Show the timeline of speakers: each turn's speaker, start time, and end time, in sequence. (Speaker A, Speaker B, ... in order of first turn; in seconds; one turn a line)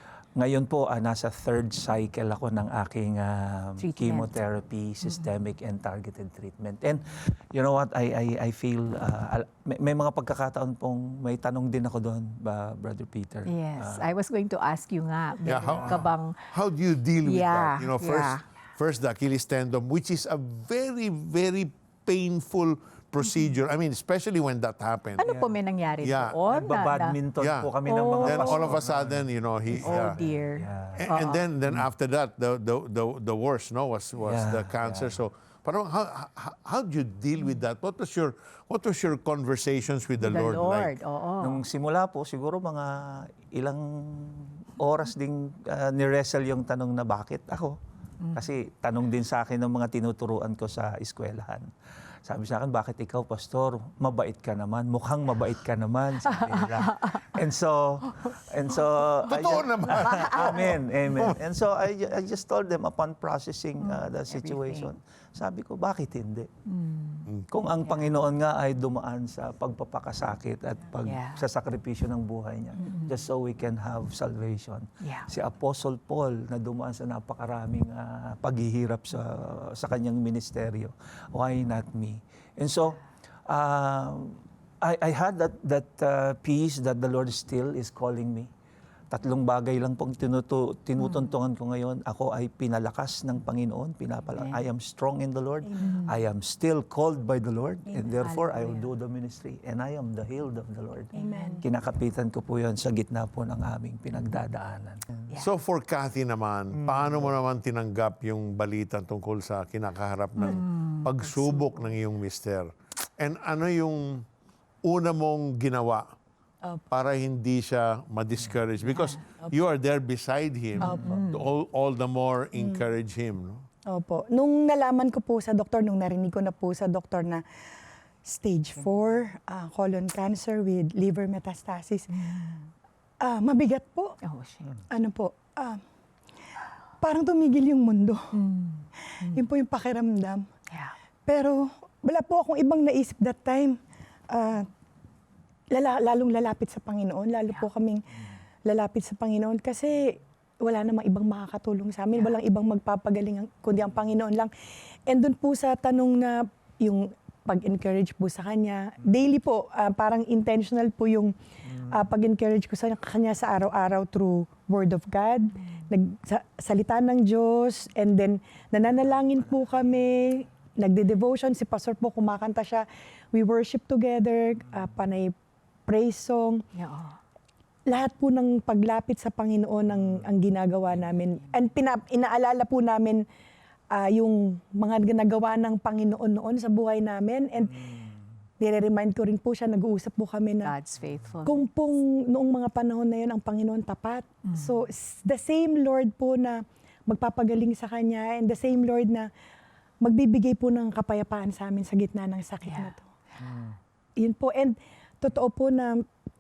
Speaker A: 0.4-14.1
Speaker B: 3.8-4.4
Speaker B: 13.5-16.4
Speaker C: 15.4-25.3
Speaker A: 15.6-16.1
Speaker B: 17.2-18.4
Speaker B: 25.2-27.2
Speaker A: 25.2-25.5
Speaker C: 26.0-26.4
Speaker A: 26.5-31.1
Speaker C: 27.4-27.7
Speaker B: 27.9-28.8
Speaker C: 28.2-30.2
Speaker B: 29.7-31.4
Speaker C: 31.0-40.9
Speaker A: 34.2-35.2
Speaker B: 40.2-41.6
Speaker A: 41.4-47.8
Speaker A: 48.3-51.7
Speaker A: 52.3-66.5
Speaker B: 56.4-57.3
Speaker C: 59.3-61.4
Speaker B: 63.8-64.9
Speaker B: 66.7-68.1
Speaker A: 67.5-88.5
Speaker B: 71.0-71.4
Speaker B: 72.8-73.1
Speaker B: 75.0-75.3
Speaker A: 89.1-101.1
Speaker B: 91.0-91.3
Speaker B: 94.4-94.6
Speaker D: 95.7-96.0
Speaker B: 98.0-98.9
Speaker D: 101.1-101.6
Speaker B: 101.2-101.6
Speaker A: 101.6-105.1
Speaker C: 105.4-114.2
Speaker A: 106.8-107.3
Speaker B: 110.4-111.6
Speaker C: 114.8-116.1
Speaker C: 116.9-123.7
Speaker B: 118.9-119.2
Speaker B: 120.8-121.4
Speaker D: 122.6-122.8
Speaker D: 123.9-127.4
Speaker D: 128.2-132.4
Speaker B: 132.1-132.6
Speaker D: 133.2-134.2
Speaker B: 134.2-134.7
Speaker D: 134.9-135.8
Speaker D: 137.0-138.3
Speaker B: 138.3-139.4
Speaker D: 139.2-140.4
Speaker D: 141.3-143.8
Speaker D: 144.3-144.7
Speaker D: 145.7-148.0
Speaker D: 148.7-154.5
Speaker D: 155.1-161.3
Speaker D: 161.9-175.3
Speaker D: 175.9-176.6
Speaker B: 176.8-177.2
Speaker D: 177.9-183.2
Speaker D: 183.9-187.8
Speaker D: 188.6-190.7
Speaker B: 190.6-191.7
Speaker D: 191.4-199.3
Speaker B: 194.5-194.7
Speaker D: 200.0-203.0
Speaker B: 202.7-202.9
Speaker A: 203.4-203.8
Speaker D: 204.2-206.0